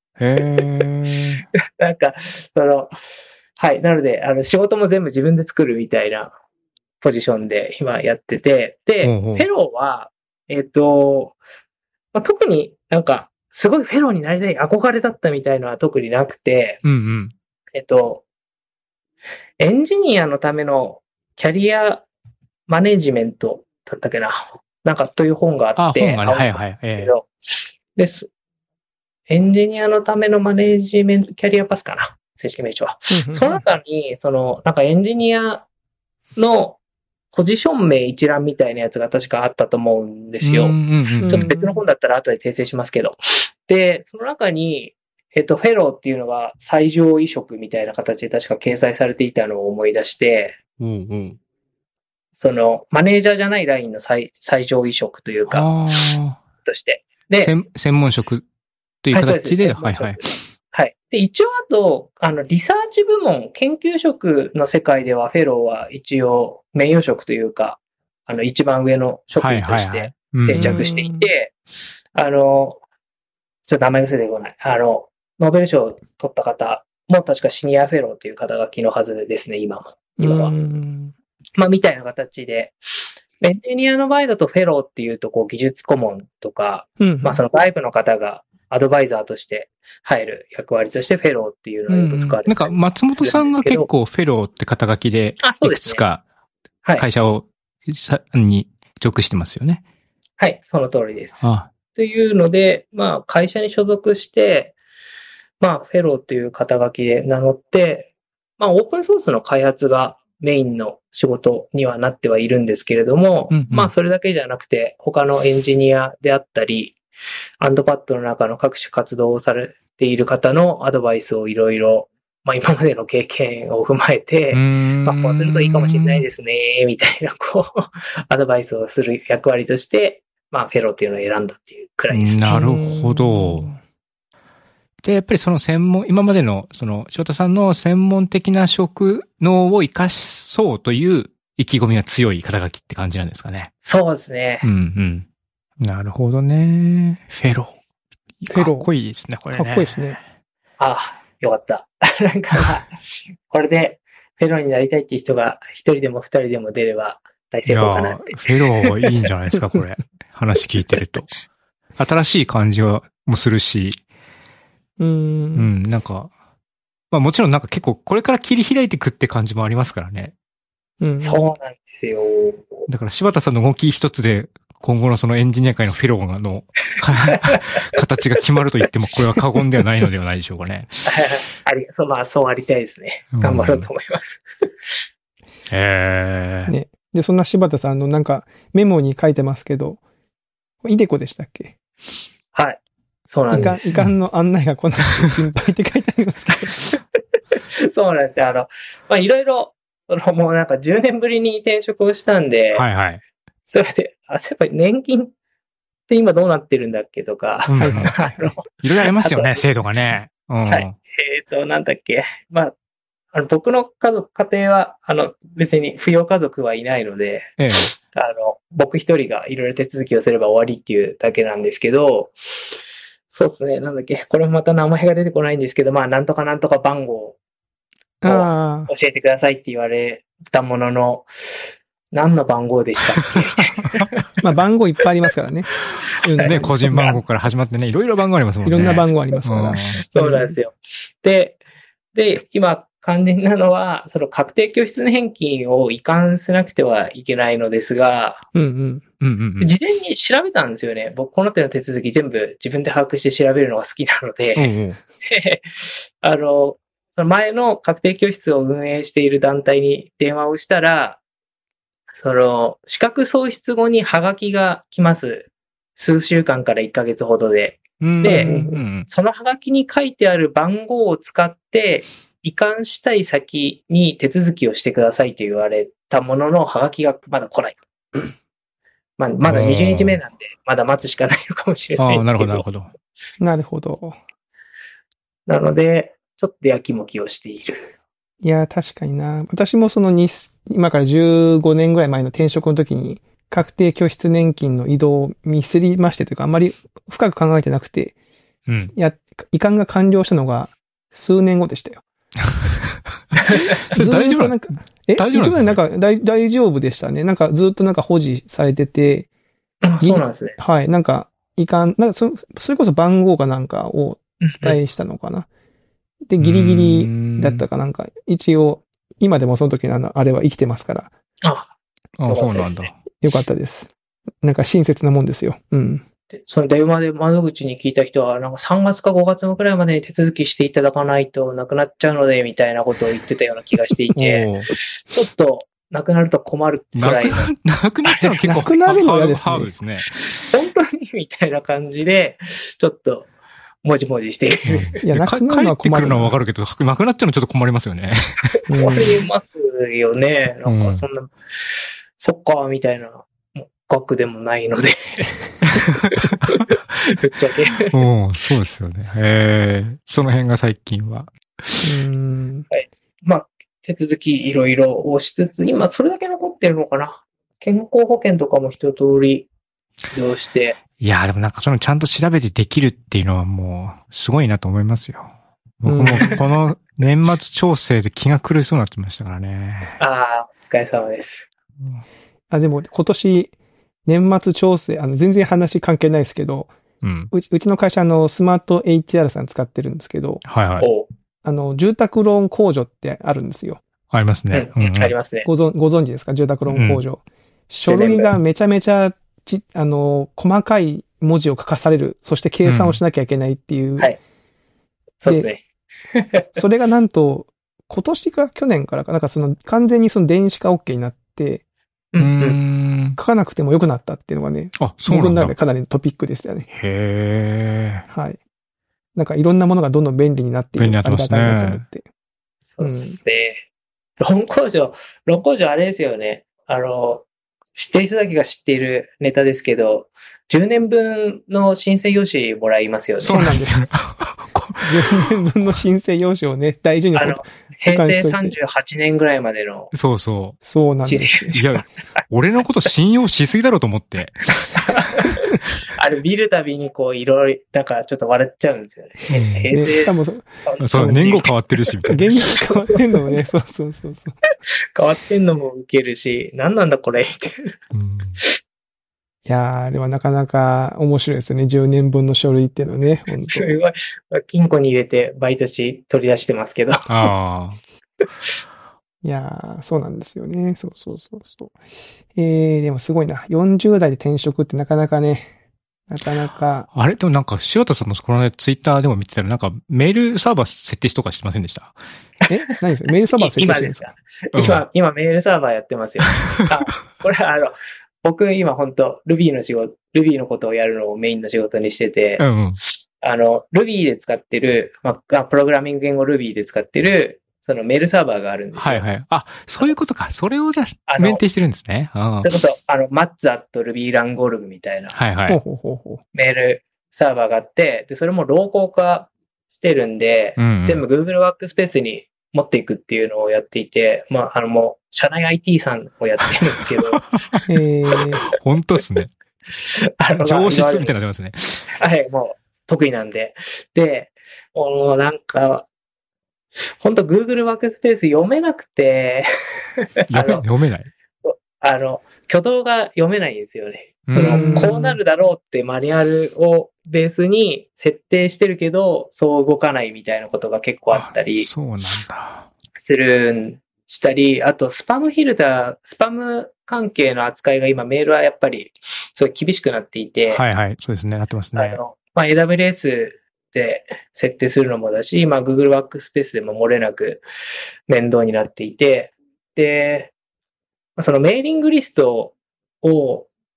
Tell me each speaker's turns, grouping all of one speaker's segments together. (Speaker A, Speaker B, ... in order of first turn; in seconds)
Speaker A: 0.2-1.4, 9.0-9.5, 16.8-17.3, 25.8-27.1, 40.4-41.5, 50.8-51.4, 55.5-56.4, 57.4-58.5, 59.0-60.2, 69.3-70.8, 91.9-96.2, 97.0-99.8, 101.4-101.7, 113.5-113.9, 124.5-126.3, 132.1-133.7, 135.0-143.7, 144.6-145.2, 145.8-147.7, 148.4-150.1, 157.7-161.3, 162.0-164.0, 165.6-166.3, 167.1-170.3, 172.9-181.1, 183.3-183.9, 185.7-186.7, 202.7-203.2, 207.7-208.2, 208.8-210.9, 217.6-217.9, 236.4-240.0, 249.2-249.7, 254.6-255.0, 268.0-269.1, 279.4-280.2, 282.0-282.9, 298.7-298.9, 303.3-304.5, 305.1-305.8, 316.4-317.6, 322.2-322.9, 334.1-334.7, 336.9-340.1, 344.6-348.5, 350.6-351.0, 355.7-356.6, 357.9-361.9, 371.0-379.9, 387.0-387.3, 390.4-390.9, 394.1-395.1, 396.7-397.0, 402.6-403.0, 412.2-413.2, 414.8-415.5, 416.7-418.1, 420.8-421.8, 433.2-435.3, 439.9-440.6, 441.5-445.2, 449.3-449.7, 450.8-452.3, 457.9-458.4, 467.1-467.8, 476.9-481.9, 484.5-484.8, 486.4-486.7, 492.4-492.8, 498.8-502.5, 505.1-505.6, 510.6-511.0, 517.2-517.6, 518.5-519.3, 520.3-521.9, 530.3-531.1, 534.3-534.9, 541.1-542.7, 550.5-552.0
Speaker B: 1.8-2.9, 3.6-6.3, 7.0-11.4, 12.1-16.8, 17.7-18.2, 19.6-22.0, 22.7-27.3, 27.9-28.3, 29.3-35.6, 36.4-36.8, 37.3-50.6, 52.4-56.1, 56.6-57.5, 59.1-71.5, 72.1-72.8, 73.7-80.5, 81.5-82.8, 83.4-93.9, 95.4-96.0, 100.4-101.4, 101.9-104.8, 105.6-117.0, 117.6-132.5, 143.8-144.6, 150.8-152.9, 153.5-159.0, 171.2-172.9, 181.1-184.4, 192.5-192.8, 193.3-194.0, 197.8-202.8, 203.7-205.3, 206.1-209.6, 210.7-212.7, 213.3-222.3, 223.3-227.4, 228.2-234.3, 236.4-237.2, 240.0-241.6, 242.1-248.4, 249.6-261.2, 262.1-268.5, 269.0-277.8, 279.2-282.6, 285.5-287.9, 309.8-310.6, 314.4-314.8, 321.4-321.7, 322.3-322.9, 326.3-337.5, 338.1-338.4, 340.4-343.3, 343.8-345.0, 348.8-351.3, 352.2-355.3, 356.5-358.0, 362.7-369.5, 370.1-370.8, 380.0-381.5, 390.8-391.1, 394.5-395.5, 397.9-398.3, 405.2-405.6, 406.1-406.6, 412.1-412.6, 422.7-423.6, 424.2-433.5, 437.1-439.9, 441.0-441.8, 444.7-451.6, 452.5-453.4, 454.9-457.8, 463.4-467.3, 483.4-492.4, 493.2-499.0, 501.1-501.4, 502.4-505.1, 506.3-517.3, 520.2-521.1, 522.0-525.9, 527.0-530.6, 531.4-541.7, 543.0-550.6, 551.7-557.4, 558.1-560.3, 561.2-563.5
Speaker C: 33.1-33.6, 41.2-41.8, 70.5-71.3, 80.2-81.1, 87.0-87.4, 132.5-133.8, 148.5-148.9, 149.5-150.2, 165.0-165.7, 171.0-171.4, 186.7-190.0, 190.8-191.8, 193.5-196.8, 207.8-208.4, 228.2-228.9, 234.4-237.2, 238.6-240.6, 248.5-249.0, 268.2-268.8, 283.4-284.2, 288.4-298.1, 298.8-302.0, 303.5-309.3, 310.0-315.5, 316.3-321.1, 323.2-326.0, 338.4-339.7, 345.0-346.3, 348.7-349.2, 361.8-362.7, 375.8-376.4, 382.5-383.5, 384.1-386.7, 387.3-390.4, 391.4-393.8, 395.4-404.1, 406.5-411.6, 413.2-416.7, 418.1-418.4, 419.1-422.1, 422.8-423.2, 433.3-433.9, 434.8-438.6, 440.6-441.5, 449.7-451.4, 452.1-454.3, 459.4-463.7, 469.2-471.7, 472.3-475.5, 476.1-476.9, 482.5-484.1, 505.5-506.2, 517.7-518.5, 534.4-535.2